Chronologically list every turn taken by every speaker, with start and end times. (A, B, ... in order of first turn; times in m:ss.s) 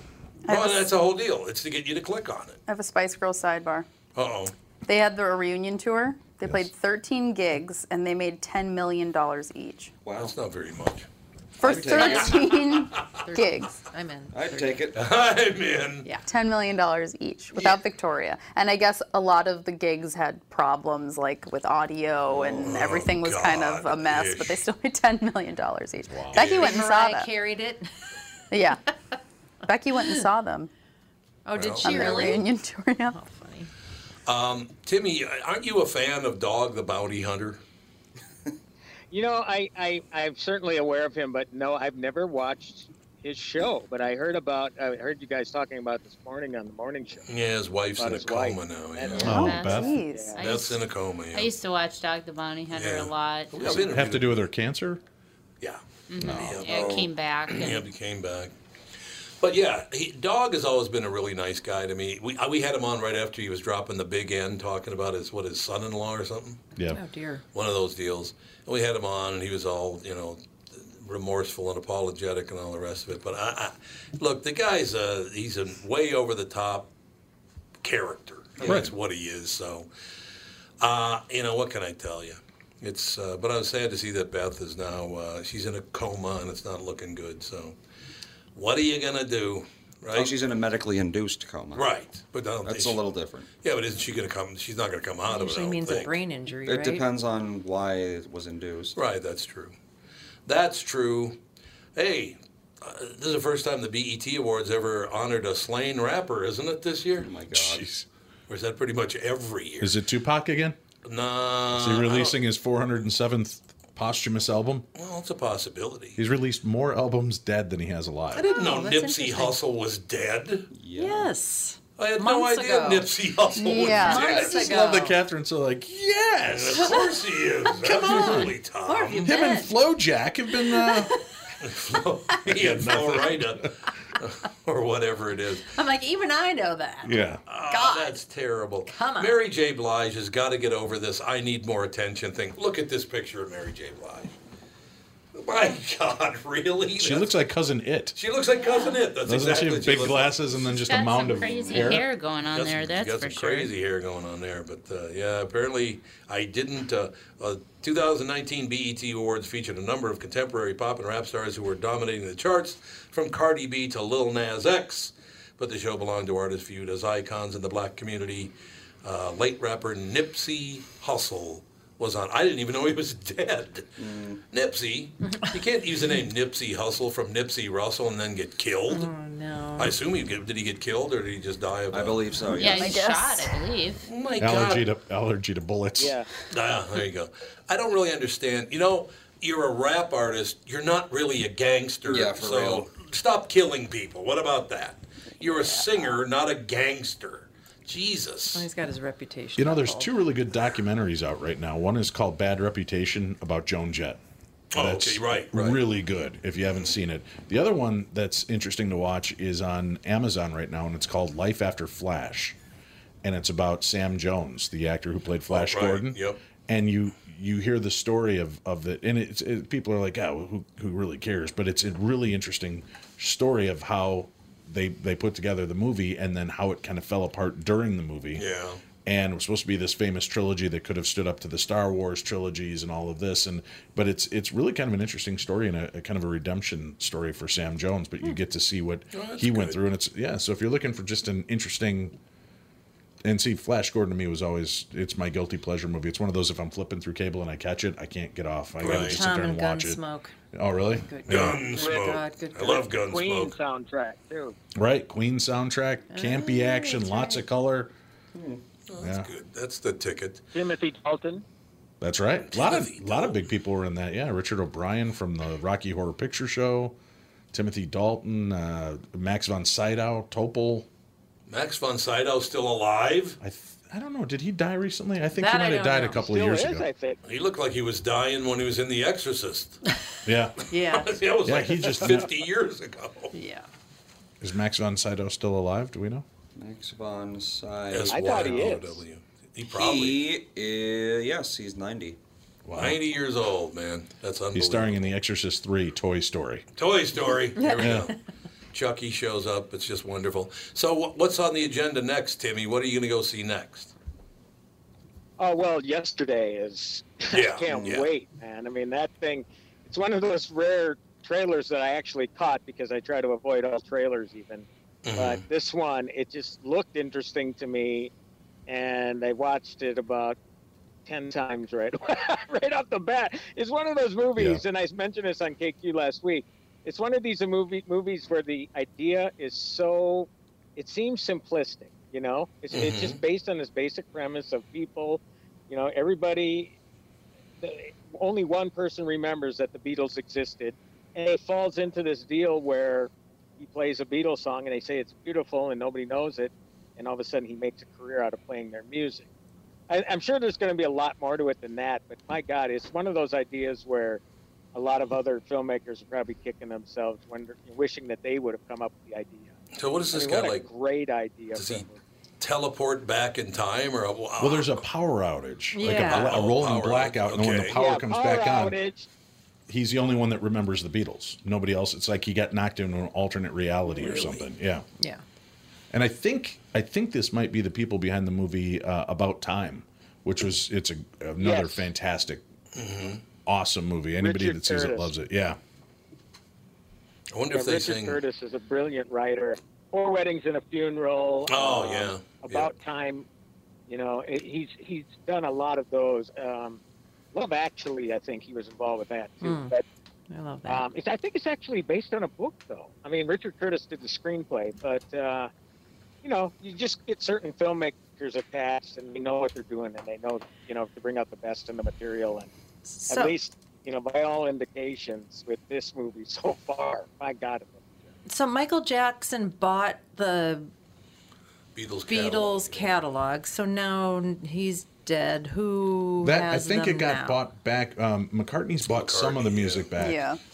0:00.5-0:00.9 A
0:00.5-0:02.6 B
0:02.7-0:03.9 A
0:04.2-0:04.5 B
0:04.9-0:09.9 A
0:10.0-0:10.3 C
0:10.2-0:11.1 B
0:11.6-0:13.8 A
0:11.6-0:12.6 C
0:11.9-0:12.3 D
0:12.7-0:13.1 B
0:13.2-0:14.9 D
0:14.3-0:15.0 C
0:15.0-0:16.1 B
0:16.3-0:27.3 A
0:22.3-0:22.8 C
0:22.6-0:24.6 B
0:26.1-0:26.5 E
0:26.4-0:26.8 B
0:26.4-0:27.9 D
0:28.5-0:28.8 A
0:29.7-0:30.7 A
0:31.5-0:32.5 D
0:31.6-0:31.9 B
0:31.8-0:33.2 A
0:33.1-0:33.7 D
0:34.3-0:37.6 B
0:39.1-0:47.2 F
0:47.3-0:49.5 B
0:48.0-0:50.4 F
0:49.2-0:50.4 A
0:49.2-0:50.0 E
0:49.2-0:53.5 G
0:50.4-0:51.5 B
0:52.7-0:54.4 B
0:53.6-0:55.0 E
0:55.6-0:58.5 B
0:56.1-0:57.9 G
0:56.2-0:56.6 E
0:56.6-0:57.1 C
0:59.4-1:06.6 B
1:06.9-1:07.4 D
1:07.5-1:16.9 B
1:17.8-1:19.9 B
1:18.6-1:18.9 E
1:20.8-1:27.8 B
1:28.6-1:30.3 B
1:30.1-1:31.8 C
1:31.7-1:33.0 B
1:32.6-1:33.5 C
1:33.6-1:36.1 B
1:35.3-1:37.0 D
1:36.6-1:39.0 C
1:39.0-1:39.7 B
1:40.5-1:41.4 B
1:42.0-1:47.3 B
1:47.2-1:47.9 C
1:47.5-1:48.1 E
1:48.5-1:50.0 B
1:49.8-1:50.8 E
1:51.0-1:52.4 B
1:51.7-1:54.9 E
1:55.0-1:56.2 B
1:56.2-1:58.5 E
1:58.3-2:00.7 B
1:58.4-1:59.6 D
2:00.7-2:01.3 C
2:01.0-2:03.1 D
2:02.0-2:04.6 B
2:03.6-2:04.6 A
2:03.9-2:05.2 D
2:04.2-2:07.2 E
2:06.5-2:09.3 B
2:07.7-2:08.6 E
2:08.9-2:09.7 D
2:09.2-2:11.1 E
2:10.7-2:11.2 D
2:11.6-2:15.7 B
2:12.5-2:13.7 E
2:15.7-2:18.2 D
2:17.0-2:17.4 E
2:17.5-2:24.4 B
2:18.9-2:19.4 D
2:25.3-2:27.3 B
2:27.0-2:28.2 E
2:28.2-2:30.6 B
2:29.2-2:32.1 E
2:30.7-2:33.7 G
2:32.5-2:48.5 B
2:49.0-2:53.9 B
2:54.0-2:54.4 C
2:54.5-2:59.1 B
2:58.9-3:00.0 D
2:59.8-3:02.2 B
3:01.9-3:03.0 C
3:02.5-3:04.0 G
3:02.6-3:03.6 A
3:04.0-3:04.9 B
3:04.4-3:06.2 E
3:06.0-3:06.3 F
3:06.5-3:18.7 B
3:12.1-3:12.9 C
3:18.5-3:20.1 D
3:19.6-3:24.2 E
3:24.7-3:25.8 B
3:24.7-3:32.6 E
3:33.2-3:48.4 E
3:35.5-3:36.4 B
3:48.4-3:48.8 B
3:49.0-4:02.2 E
3:59.1-3:59.8 B
4:03.2-4:11.6 E
4:08.8-4:09.2 B
4:08.8-4:10.3 D
4:11.0-4:12.9 D
4:11.3-4:13.6 B
4:11.7-4:14.6 F
4:14.8-4:17.9 E
4:16.1-4:17.4 D
4:18.3-4:18.6 C
4:18.9-4:20.4 B
4:19.0-4:19.3 E
4:20.5-4:21.4 F
4:22.0-4:27.0 E
4:22.5-4:23.4 B
4:27.5-4:30.9 E
4:31.5-4:33.4 B
4:33.4-4:36.9 E
4:35.4-4:36.2 D
4:36.2-4:37.2 F
4:37.3-4:39.8 B
4:40.3-4:40.7 E
4:40.7-4:41.2 D
4:40.9-4:43.3 B
4:41.4-4:42.3 E
4:43.3-4:43.7 D
4:44.4-4:46.2 E
4:46.6-4:48.7 C
4:47.9-4:50.2 B
4:48.1-4:49.0 F
4:49.7-4:52.2 C
4:52.6-4:53.0 E
4:52.7-4:55.1 B
4:54.5-4:56.7 E
4:56.8-4:58.2 B
4:57.6-4:57.9 D
4:57.8-4:58.1 E
4:58.7-5:03.9 B
5:05.4-5:18.1 F
5:07.3-5:08.1 B
5:07.7-5:08.0 C
5:15.0-5:15.4 B
5:18.7-5:20.4 F
5:21.1-5:36.7 F
5:24.4-5:24.6 E
5:32.7-5:33.2 B
5:37.6-5:49.3 F
5:49.9-5:54.2 F
5:54.7-5:59.5 F
5:59.8-6:00.7 B
6:00.1-6:02.0 F
6:01.5-6:01.9 B
6:02.4-6:04.8 B
6:04.4-6:08.8 E
6:05.8-6:06.3 D
6:05.8-6:07.8 B
6:07.7-6:09.1 F
6:09.7-6:14.9 E
6:15.0-6:15.2 D
6:15.9-6:22.4 E
6:21.4-6:21.9 F
6:22.7-6:23.2 B
6:23.5-6:25.6 E
6:24.2-6:25.1 F
6:27.3-6:28.2 B
6:27.5-6:33.3 F
6:31.5-6:32.7 B
6:33.9-6:36.8 F
6:37.3-6:39.8 F
6:39.4-6:39.7 D
6:40.3-6:40.8 D
6:40.7-6:45.5 F
6:46.2-6:52.5 F
6:52.9-6:53.3 D
6:53.1-6:57.8 F
6:58.3-7:00.7 D
7:01.8-7:03.0 B
7:02.1-7:07.5 D
7:06.2-7:10.3 E
7:08.8-7:09.9 B
7:10.0-7:10.4 A